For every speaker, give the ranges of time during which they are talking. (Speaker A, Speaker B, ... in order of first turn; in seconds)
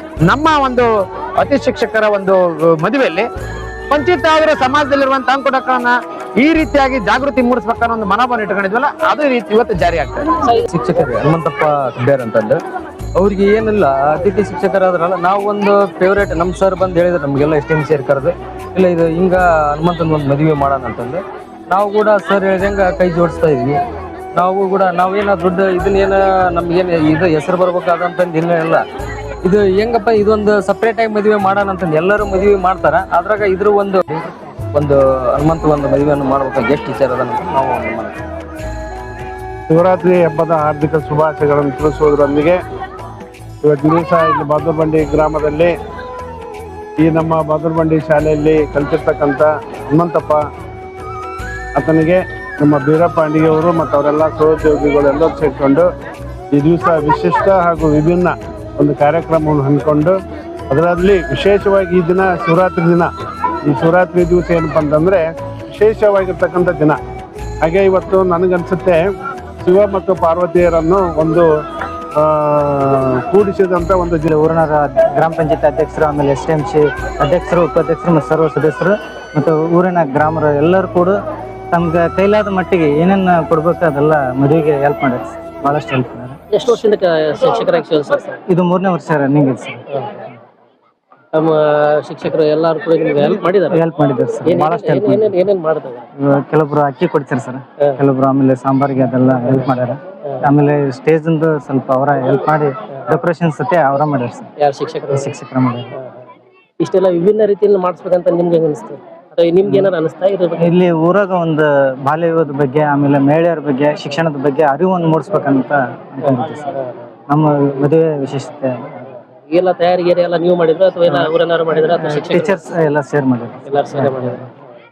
Speaker A: 0.3-0.9, 1.4-3.3, 3.9-10.3
Speaker B: 10.7-12.6, 13.2-23.8, 24.4-28.8, 29.4-38.1
Speaker C: 39.7-42.6, 43.6-45.7, 47.0-50.4, 51.8-55.9, 56.5-60.1, 60.7-63.1, 63.7-67.0, 67.6-69.0, 69.6-71.5, 72.2-74.3
Speaker D: 74.3-81.2, 81.7-86.4, 88.5-89.9, 93.2-95.4, 96.2-104.5, 105.1-105.9, 109.7-109.9, 110.6-116.7, 117.3-119.1, 121.8-124.5
Speaker E: 86.5-88.4, 91.3-93.8, 94.5-96.1, 104.6-105.3, 106.8-110.7, 119.5-122.6, 123.7-124.5